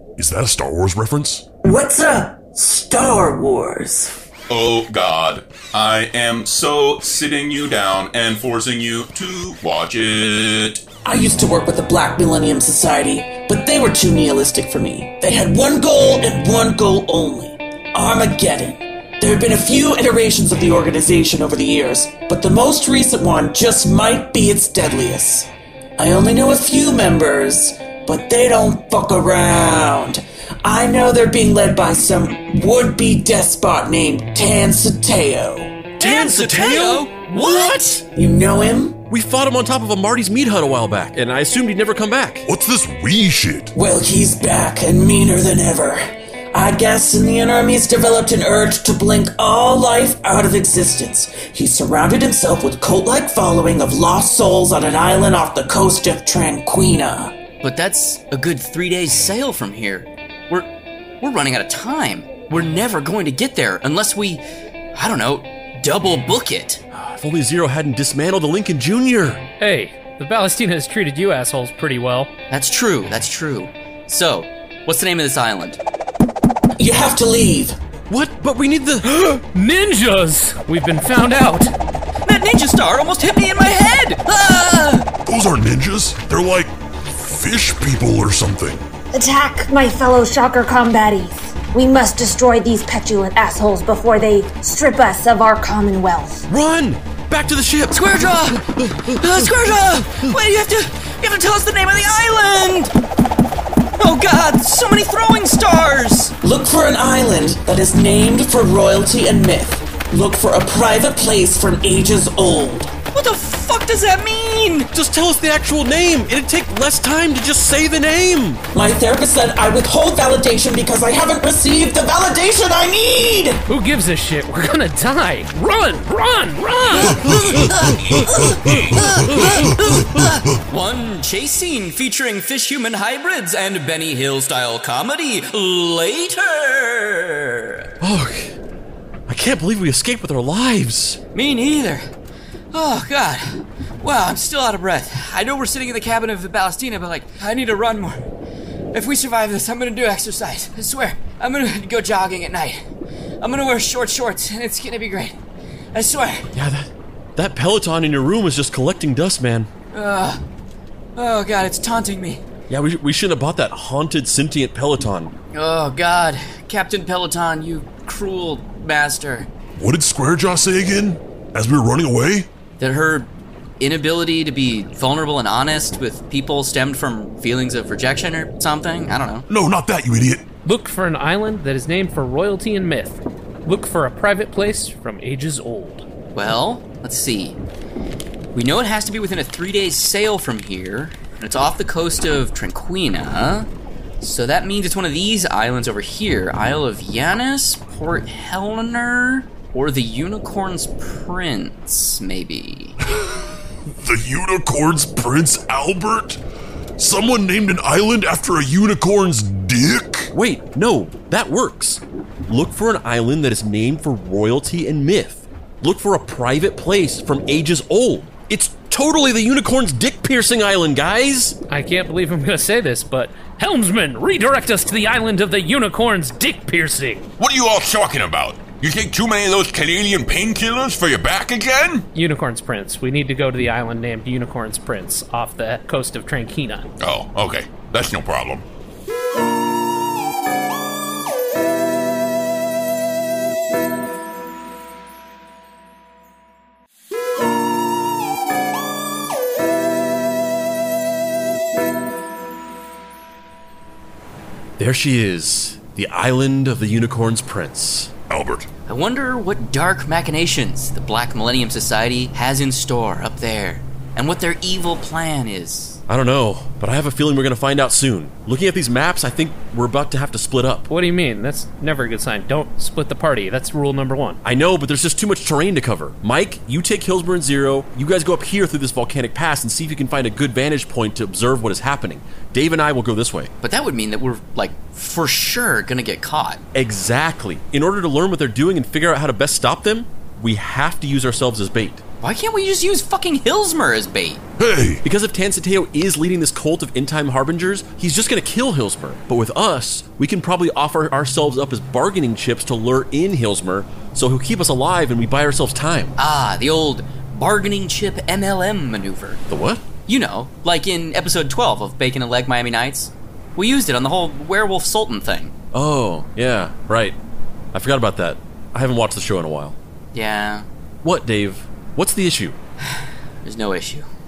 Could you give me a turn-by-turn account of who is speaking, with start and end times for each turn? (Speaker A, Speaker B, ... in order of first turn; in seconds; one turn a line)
Speaker A: 0.2-1.4
Speaker B: 1.6-4.1
Speaker C: 4.5-10.8
Speaker B: 11.0-35.9
Speaker D: 36.0-37.1
Speaker E: 36.0-38.0
Speaker B: 38.1-39.0
Speaker D: 39.1-42.5
Speaker A: 42.5-43.7
Speaker B: 43.7-46.0
Speaker B: 46.5-57.3
Speaker E: 57.6-60.7
Speaker E: 61.2-66.8
Speaker D: 66.9-69.4
Speaker F: 69.6-72.3
Speaker E: 72.5-75.8
Speaker B: 76.8-77.8
Speaker D: 78.1-79.2
Speaker F: 79.2-81.7
Speaker E: 82.2-85.1
Speaker A: 85.2-88.8
Speaker G: 89.1-96.5
Speaker D: 96.5-100.3
Speaker E: 97.9-102.9
Speaker E: 103.9-106.3
Speaker B: 106.4-112.9
Speaker E: 113.1-114.9
Speaker D: 114.9-118.6
Speaker B: 118.7-123.6
Speaker F: 123.7-127.2
Speaker E: 127.0-137.9
Speaker A: 127.4-129.4
Speaker D: 138.0-138.6
Speaker D: 139.3-141.2
Speaker E: 141.3-142.1
Speaker E: 142.7-148.3
Speaker E: 148.9-152.8
Speaker E: 153.4-155.4
Speaker E: 155.9-156.5
Speaker D: 156.5-159.7
Speaker E: 159.9-160.4
Speaker E: 161.2-162.4
Speaker D: 162.7-165.3
Speaker E: 165.5-169.5
Speaker A: 169.7-172.5
Speaker E: 172.8-179.4
Speaker A: 179.5-180.4
Speaker F: 180.6-186.1
Speaker E: 186.3-187.6
Speaker E: 188.5-193.7
Speaker E: 194.2-203.0
Speaker A: 203.9-206.4
Speaker A: 207.0-210.3
Speaker D: 210.3-221.6
Speaker F: 221.7-227.3
Speaker H: 227.4-232.1
Speaker F: 232.1-236.9
Speaker H: 237.0-238.6
Speaker D: 254.8-258.1
Speaker A: 258.3-258.7
Speaker E: 258.9-266.0
Speaker D: 266.1-270.9
Speaker F: 270.9-274.4
Speaker D: 274.4-283.5
Speaker E: 283.6-286.6
Speaker D: 286.7-292.0
Speaker E: 292.2-294.4
Speaker A: 294.6-295.0
Speaker D: 295.0-306.1
Speaker E: 306.2-309.4
Speaker D: 309.5-309.8
Speaker E: 310.1-315.5
Speaker D: 315.7-317.2
Speaker D: 317.7-319.8
Speaker E: 320.1-320.7
Speaker D: 321.0-322.6
Speaker E: 322.8-324.1